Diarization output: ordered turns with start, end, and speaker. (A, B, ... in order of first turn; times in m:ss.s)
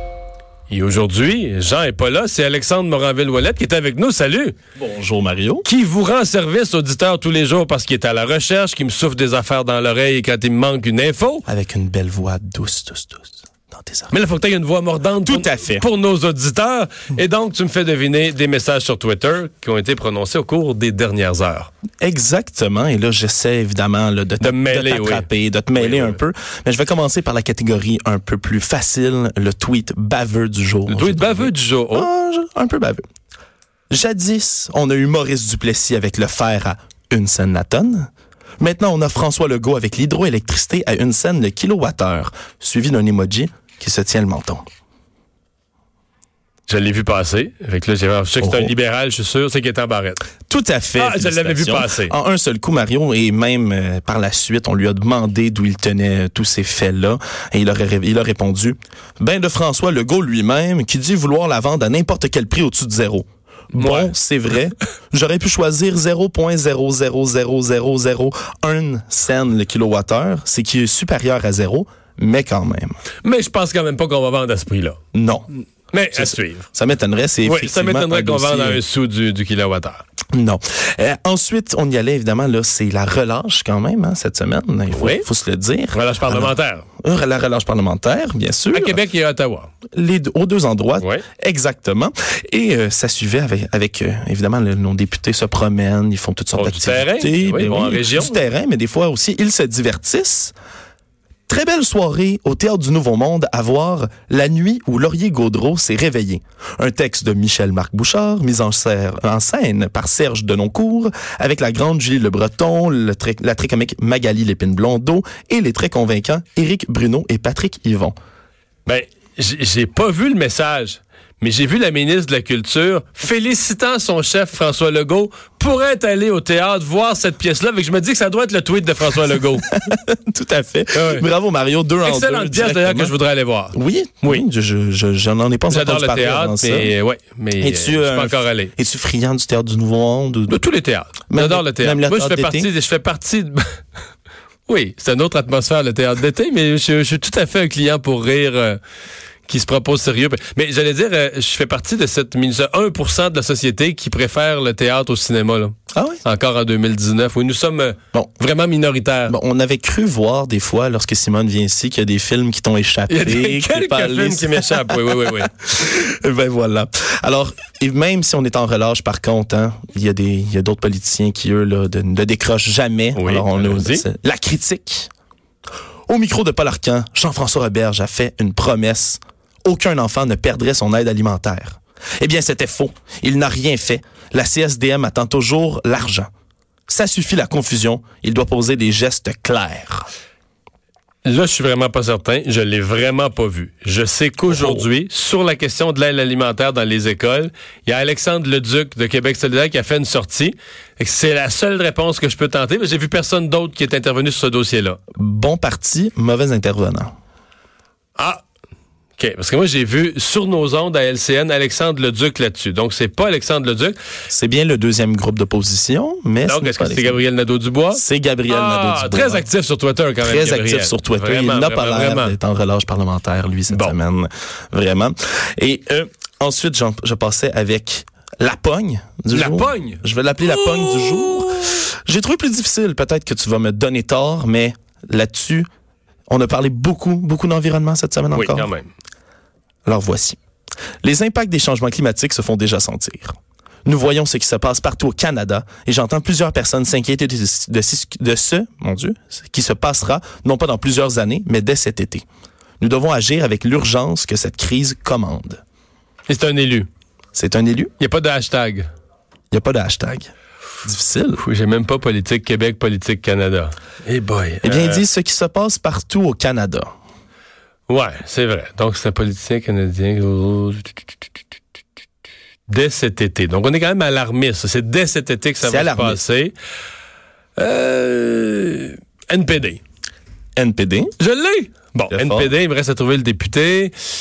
0:00.7-0:04.6 A
0:04.8-0:05.6 B
0:05.6-0:11.4 A
0:11.5-0:14.1 B
0:14.1-0:21.7 A
0:15.2-0:15.8 B
0:22.0-0:33.0 B
0:24.4-0:26.2 A
0:30.9-0:32.1 A
0:33.9-0:38.1 B
0:38.6-0:44.6 B
0:46.7-0:50.2 A
0:48.4-0:48.7 B
0:50.5-1:12.9 B
0:50.9-0:52.1 A
1:03.8-1:04.1 A
1:13.2-1:15.0 A
1:15.1-1:15.5 B
1:15.9-1:16.7 A
1:16.1-1:18.8 B
1:17.4-1:20.0 A
1:20.3-1:29.0 B
1:24.9-1:25.2 A
1:25.9-1:26.8 A
1:28.7-1:29.7 A
1:29.9-1:40.5 B
1:31.0-1:31.2 A
1:36.5-1:38.4 A
1:41.5-1:58.1 B
1:58.8-2:09.7 A
2:09.6-2:13.2 B
2:10.9-2:11.2 A
2:12.0-2:14.4 A
2:13.7-2:16.9 B
2:15.7-2:18.7 A
2:17.6-2:20.6 B
2:20.5-2:23.6 A
2:21.3-2:22.7 B
2:24.7-2:28.8 A
2:29.4-2:39.3 A
2:35.9-2:36.2 B
2:39.3-2:55.1 B
2:43.1-2:45.5 A
2:53.2-2:54.0 A
2:56.1-3:06.3 B
3:06.9-3:10.1 B
3:11.2-3:25.0 A
3:14.4-3:14.9 B
3:25.2-3:27.1 B
3:28.2-3:28.4 A
3:29.2-3:34.0 A
3:34.3-3:37.2 B
3:36.4-3:42.3 A
3:37.9-3:39.4 B
3:40.2-3:55.6 B
3:43.7-3:44.0 A
3:49.3-3:50.0 A
3:56.3-3:58.7 B
3:58.3-3:58.9 A
3:59.8-4:00.4 B
4:01.0-4:03.3 B
4:03.8-4:12.2 B
4:12.8-4:15.6 B
4:16.3-4:16.9 A
4:17.3-4:17.9 B
4:18.0-4:18.9 A
4:19.5-4:20.3 B
4:20.8-4:21.4 B
4:21.4-4:25.0 A
4:24.6-4:26.9 B
4:27.9-4:30.9 A
4:32.7-4:36.5 A
4:35.6-4:36.2 B
4:37.6-4:39.8 A
4:40.6-4:41.1 B
4:41.2-4:43.9 A
4:42.1-4:42.5 B